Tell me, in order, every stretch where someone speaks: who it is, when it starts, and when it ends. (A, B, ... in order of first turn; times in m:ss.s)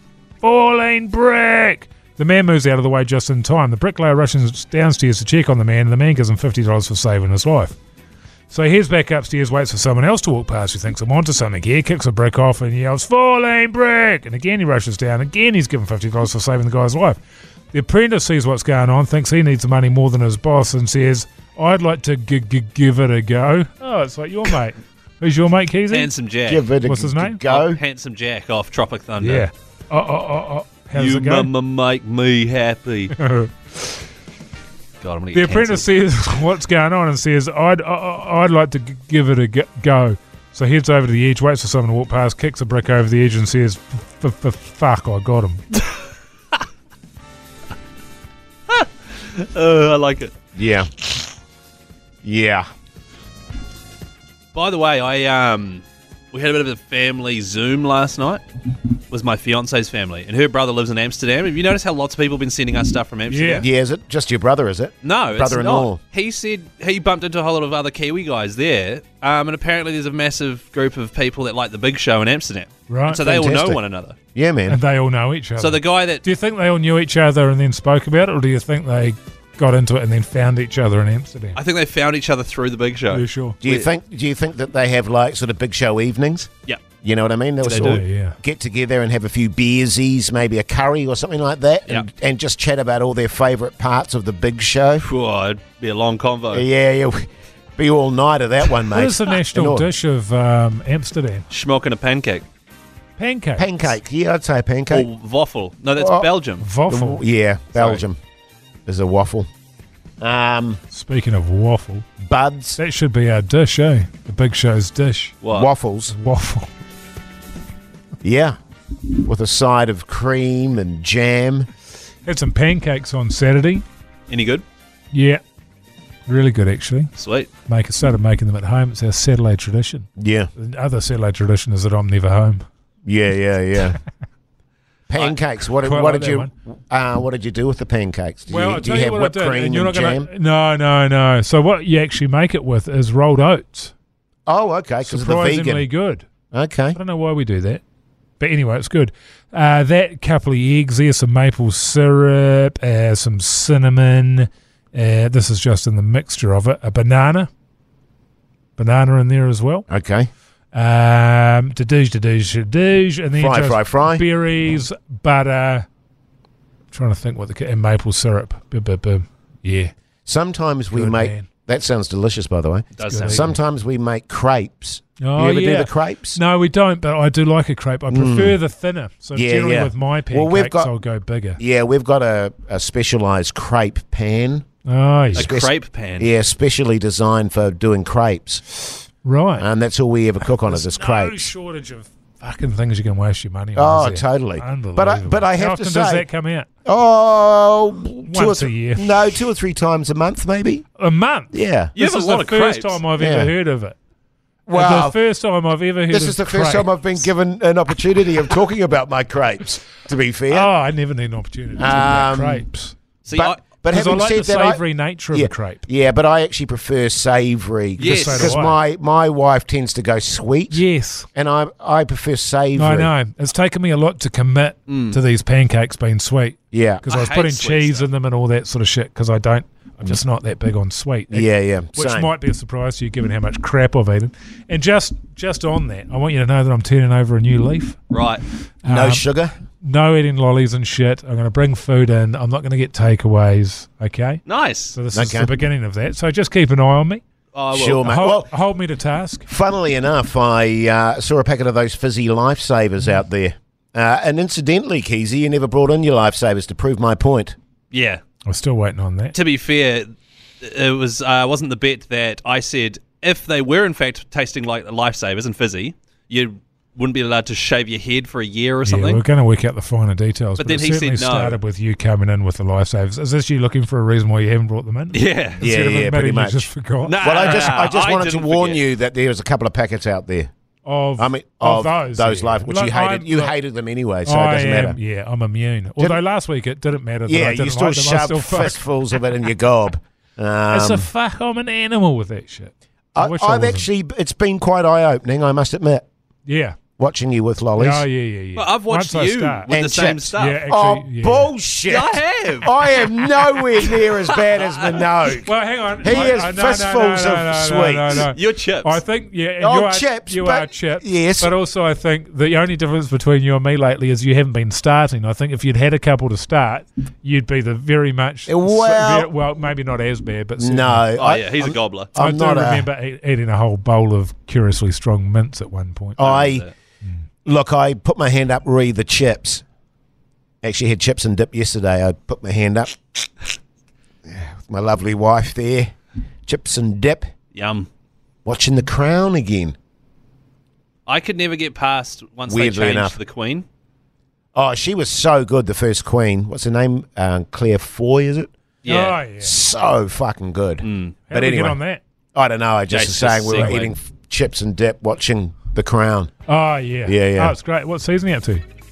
0:00.4-0:07.8 A
0:08.5-0:17.2 A
0:17.7-0:26.1 A
0:25.9-0:26.7 B
0:26.4-0:27.8 C
0:26.8-0:27.4 A
0:27.5-0:29.5 B
0:29.2-0:31.5 A
0:31.0-0:33.1 B
0:33.1-0:34.0 A
0:35.0-0:35.8 B
0:35.3-0:45.6 A
0:48.7-0:50.3 B
0:50.6-0:50.9 C
0:52.2-0:52.7 C
0:54.5-0:58.4 B
0:59.1-1:03.7 B
1:03.3-1:03.7 A
1:03.6-1:06.0 C
1:05.0-1:14.2 B
1:12.9-1:13.2 A
1:13.2-1:13.8 C
1:14.3-1:14.8 C
1:14.7-1:21.6 A
1:15.6-1:16.2 B
1:21.6-1:23.9 B
1:23.1-1:23.6 A
1:23.6-1:26.5 C
1:27.0-1:35.1 C
1:27.6-1:28.0 B
1:27.8-1:28.4 A
1:35.0-1:36.6 B
1:36.5-1:39.9 C
1:38.9-1:41.4 A
1:41.5-1:42.4 B
1:43.2-1:44.0 A
1:43.6-1:45.1 C
1:44.9-1:46.6 B
1:46.0-1:46.3 C
1:46.6-1:47.2 A
1:46.9-1:48.2 C
1:47.8-1:48.0 B
1:48.9-1:49.5 C
1:50.2-1:50.8 C
1:50.9-1:52.1 A
1:52.2-1:52.8 C
1:52.8-1:55.4 A
1:55.4-1:55.7 B
1:55.5-1:56.2 C
1:56.1-1:56.7 A
1:58.2-1:58.6 C
1:59.2-2:01.7 C
2:02.2-2:03.8 A
2:04.3-2:04.6 B
2:05.1-2:05.4 A
2:06.3-2:07.1 A
2:07.2-2:07.5 B
2:07.7-2:12.6 A
2:10.2-2:10.5 C
2:13.1-2:14.0 C
2:15.1-2:20.3 C
2:15.8-2:16.5 A
2:18.5-2:23.9 A
2:24.5-2:25.9 C
2:25.0-2:26.3 A
2:26.5-2:27.0 C
2:26.9-2:27.8 A
2:28.4-2:37.5 A
2:38.8-2:39.8 A
2:39.9-2:40.3 C
2:40.7-2:45.9 A
2:43.4-2:44.2 C
2:46.9-2:49.9 A
2:50.3-2:56.4 C
2:50.9-2:51.5 A
2:53.0-2:53.4 B
2:53.0-2:53.6 A
2:55.2-3:01.6 A
2:58.1-2:58.6 C
2:59.4-3:01.0 C
3:01.6-3:04.6 C
3:04.8-3:05.5 A
3:05.3-3:08.6 C
3:05.4-3:06.3 B
3:09.2-3:09.7 A
3:09.6-3:11.4 C
3:10.6-3:16.7 A
3:13.8-3:16.3 C
3:16.8-3:20.9 C
3:18.2-3:19.2 A
3:21.0-3:24.0 A
3:21.5-3:21.9 C
3:22.0-3:23.0 B
3:23.2-3:23.5 C
3:24.7-3:25.2 C
3:24.7-3:27.3 A
3:26.1-3:30.7 C
3:30.5-3:33.0 A
3:31.8-3:32.7 C
3:33.2-3:33.6 B
3:33.3-3:43.1 C
3:33.9-3:35.8 A
3:38.0-3:38.8 A
3:38.0-3:38.6 B
3:40.7-3:41.3 A
3:42.7-3:58.0 A
3:44.9-3:45.2 B
3:46.7-3:47.0 C
3:47.1-3:48.1 B
3:51.3-3:52.3 C
3:58.1-3:58.4 B
3:58.8-3:59.3 A
3:58.9-3:59.5 C
3:59.8-4:07.2 A
4:04.5-4:05.0 B
4:05.1-4:05.5 C
4:07.5-4:08.2 B
4:07.7-4:08.6 C
4:08.0-4:09.5 A
4:09.5-4:17.6 C
4:17.9-4:18.2 B
4:18.5-4:19.4 A
4:19.3-4:20.1 B
4:20.6-4:29.2 B
4:28.8-4:37.2 A
4:30.6-4:31.6 B
4:35.1-4:35.6 B
4:35.6-4:40.5 C
4:37.0-4:38.8 B
4:40.8-4:43.5 A
4:41.2-4:45.0 C
4:44.2-4:48.9 A
4:47.3-4:51.1 C
4:50.7-4:53.9 A
4:53.2-4:56.0 C
4:56.5-4:56.8 A
4:57.0-4:58.1 C
4:57.8-4:59.8 A
4:58.6-5:00.6 B
4:59.7-5:08.3 C
5:00.3-5:01.5 A
5:01.9-5:03.1 B
5:03.6-5:04.0 B
5:05.4-5:21.1 A
5:08.3-5:09.0 B
5:09.6-5:11.5 C
5:18.5-5:19.3 C
5:20.6-5:22.9 C
5:21.2-5:22.1 B
5:22.2-5:26.3 A
5:26.2-5:26.7 C
5:26.2-5:26.7 B
5:27.4-5:29.6 C
5:30.6-5:33.0 C
5:34.2-5:35.9 C
5:36.5-5:37.3 C
5:37.5-5:37.9 B
5:38.4-5:39.8 C
5:41.1-5:43.6 B
5:42.5-5:43.2 C
5:44.5-5:48.5 C
5:48.8-5:49.2 B
5:48.9-5:49.5 A
5:49.4-5:51.8 C
5:50.8-5:51.2 B
5:51.3-5:52.0 A
5:52.4-5:56.3 C
5:52.9-5:53.9 B
5:56.5-5:58.6 A
5:57.0-5:57.6 C